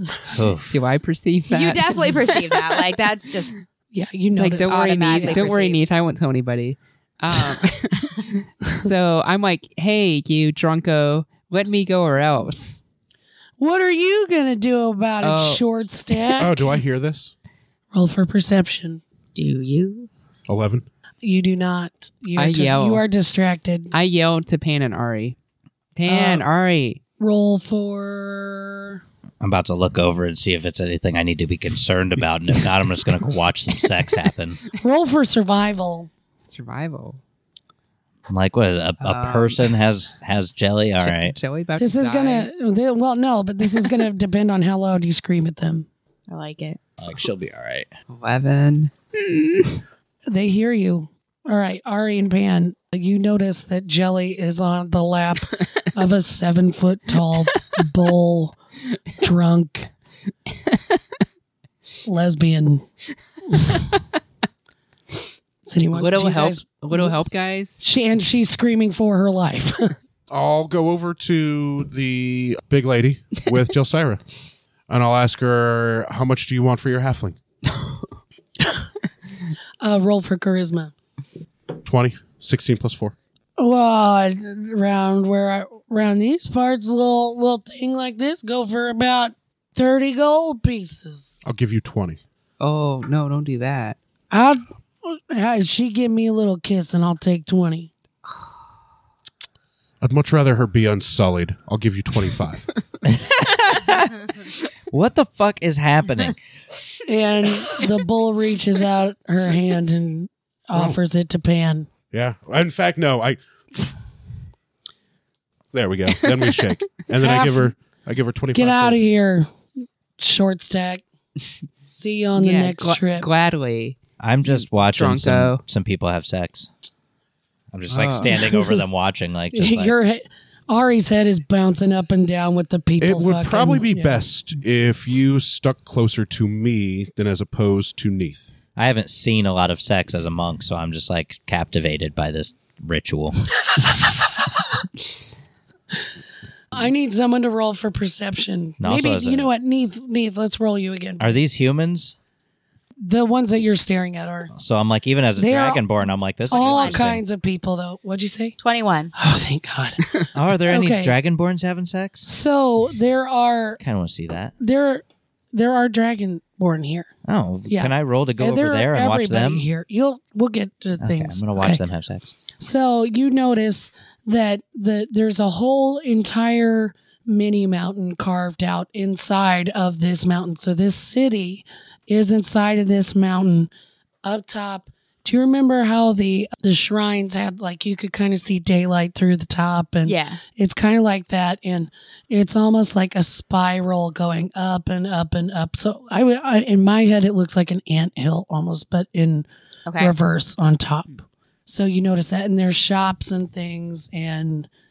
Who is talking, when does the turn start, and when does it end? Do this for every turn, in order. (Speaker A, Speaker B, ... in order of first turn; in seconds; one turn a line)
Speaker A: 0.3-0.7
Speaker B: 0.6-2.8
Speaker C: 1.5-3.5
Speaker D: 3.9-5.6
Speaker B: 4.3-12.8
Speaker C: 4.6-5.8
Speaker D: 13.6-16.6
Speaker B: 15.2-15.6
Speaker E: 16.4-17.3
Speaker D: 17.9-19.0
Speaker C: 19.3-20.1
Speaker E: 20.5-20.8
Speaker D: 21.2-23.9
Speaker B: 22.4-23.0
Speaker B: 23.9-25.4
Speaker B: 25.9-27.0
Speaker D: 26.1-26.4
Speaker D: 27.2-29.0
Speaker A: 29.4-34.6
Speaker D: 34.7-36.1
Speaker B: 36.4-37.2
Speaker A: 38.3-41.4
Speaker B: 39.0-39.7
Speaker B: 40.6-42.5
Speaker D: 41.8-45.9
Speaker C: 46.3-46.8
Speaker A: 47.0-47.9
Speaker B: 48.1-49.8
Speaker D: 50.3-58.5
Speaker B: 57.5-57.8
Speaker D: 59.2-59.9
Speaker B: 60.5-61.0
Speaker D: 62.0-62.8
Speaker D: 63.5-63.8
Speaker B: 63.7-64.0
Speaker D: 65.6-67.2
Speaker B: 65.9-67.8
Speaker D: 67.8-69.9
Speaker E: 70.3-74.3
Speaker E: 74.9-77.4
Speaker D: 79.8-80.9
Speaker E: 81.8-83.1
Speaker D: 83.6-91.4
Speaker E: 91.4-92.2
Speaker B: 92.6-94.0
Speaker D: 94.3-97.9
Speaker E: 100.0-102.7
Speaker A: 103.0-104.3
Speaker A: 104.9-106.4
Speaker D: 107.0-111.9
Speaker E: 110.7-111.0
Speaker E: 112.1-113.9
Speaker E: 115.7-119.0
Speaker D: 117.2-117.7
Speaker D: 118.5-119.5
Speaker D: 120.2-121.0
Speaker D: 121.9-123.3
Speaker B: 122.3-125.6
Speaker A: 124.2-126.7
Speaker A: 127.7-129.9
Speaker B: 127.9-128.4
Speaker D: 128.3-128.7
Speaker D: 129.5-134.3
Speaker E: 133.0-138.5
Speaker A: 138.8-143.5
Speaker D: 146.7-151.3
Speaker A: 148.8-149.5
Speaker A: 151.2-152.1
Speaker D: 153.0-154.5
Speaker A: 154.5-157.2
Speaker D: 155.3-155.9
Speaker C: 156.5-157.0
Speaker D: 156.5-158.6
Speaker C: 158.6-159.1
Speaker D: 159.1-161.1
Speaker A: 160.3-162.3
Speaker D: 162.2-163.8
Speaker A: 163.8-164.5
Speaker D: 164.6-167.1
Speaker A: 167.2-169.7
Speaker D: 167.7-171.8
Speaker A: 171.0-172.3
Speaker D: 172.6-183.7
Speaker D: 184.2-199.5
Speaker C: 190.0-190.4
Speaker C: 199.9-200.1
Speaker D: 200.0-204.7